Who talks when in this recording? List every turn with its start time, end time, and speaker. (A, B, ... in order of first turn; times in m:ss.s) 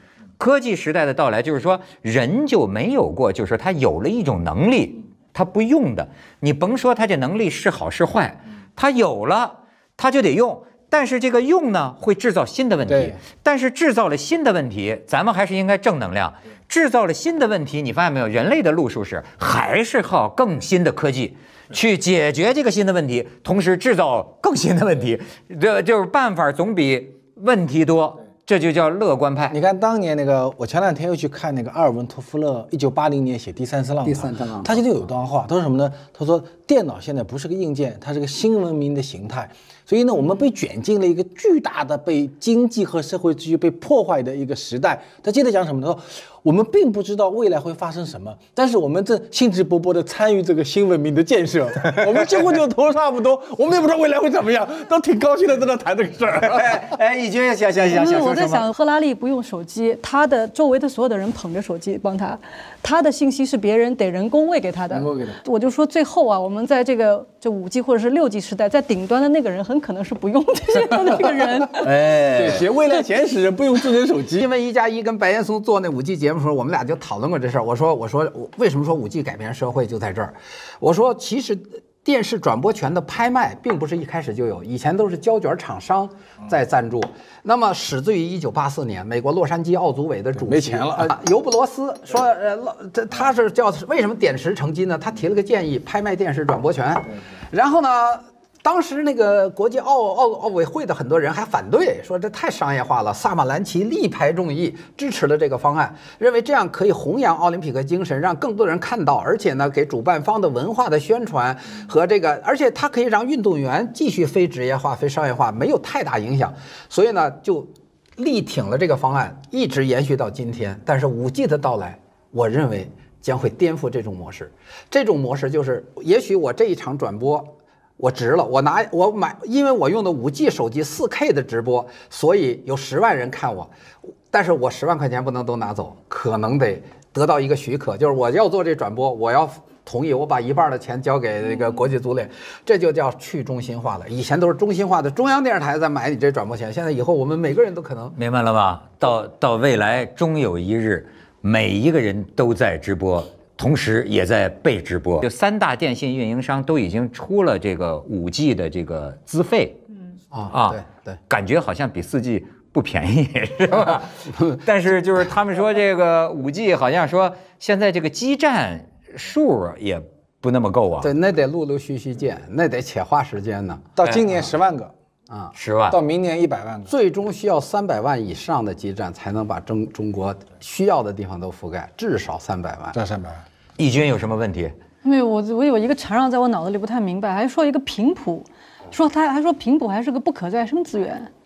0:00.4-0:29.6 A
0:12.9-0:13.2 B
0:29.5-0:56.9 B
0:34.0-0:34.8 C
0:56.4-0:58.7 A
0:57.9-1:11.9 D
1:04.9-1:05.4 B
1:11.8-1:12.7 A
1:12.0-1:14.5 B
1:14.3-2:13.7 C
1:30.4-1:31.2 B
2:14.3-2:28.2 C
2:28.2-2:39.8 A
2:40.3-2:41.2 C
2:40.5-2:51.1 A
2:43.8-2:44.6 C
2:51.0-2:53.9 C
2:54.0-2:54.9 B
2:55.5-2:56.0 A
2:55.9-2:56.9 B
2:56.9-3:03.0 C
3:02.9-3:03.4 B
3:03.8-3:04.7 A
3:05.0-3:11.3 D